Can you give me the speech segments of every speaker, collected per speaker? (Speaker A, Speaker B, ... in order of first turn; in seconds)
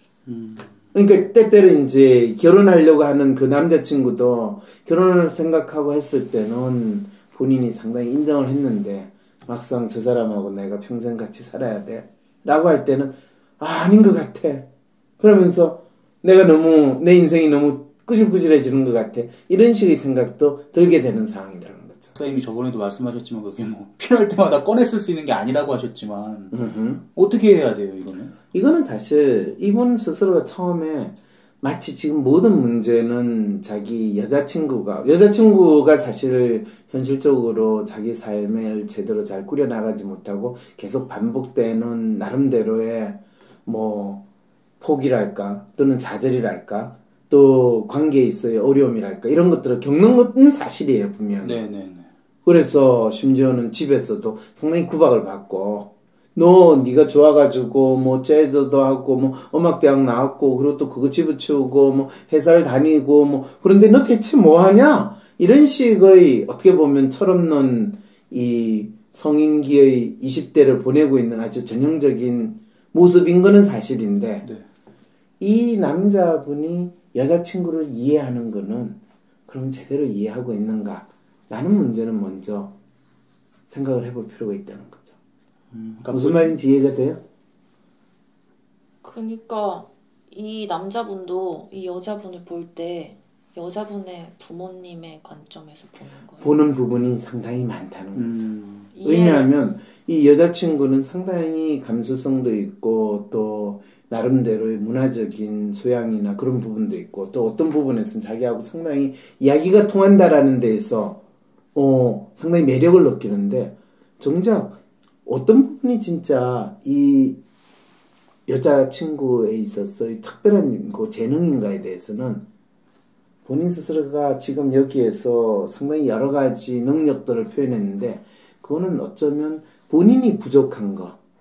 Speaker A: 0.2-0.8, 22.1-26.6, 27.1-28.3, 51.4-52.1, 85.7-86.5, 98.1-98.9
Speaker B: 0.9-14.7, 15.2-22.1, 26.5-27.0, 28.5-44.2, 44.8-51.6, 52.4-74.5, 75.4-79.0, 79.5-82.7, 83.7-85.1, 86.1-87.2, 96.4-98.5, 99.0-111.2, 111.7-117.4, 118.5-122.4, 123.4-131.2
Speaker C: 89.0-96.6, 98.9-99.5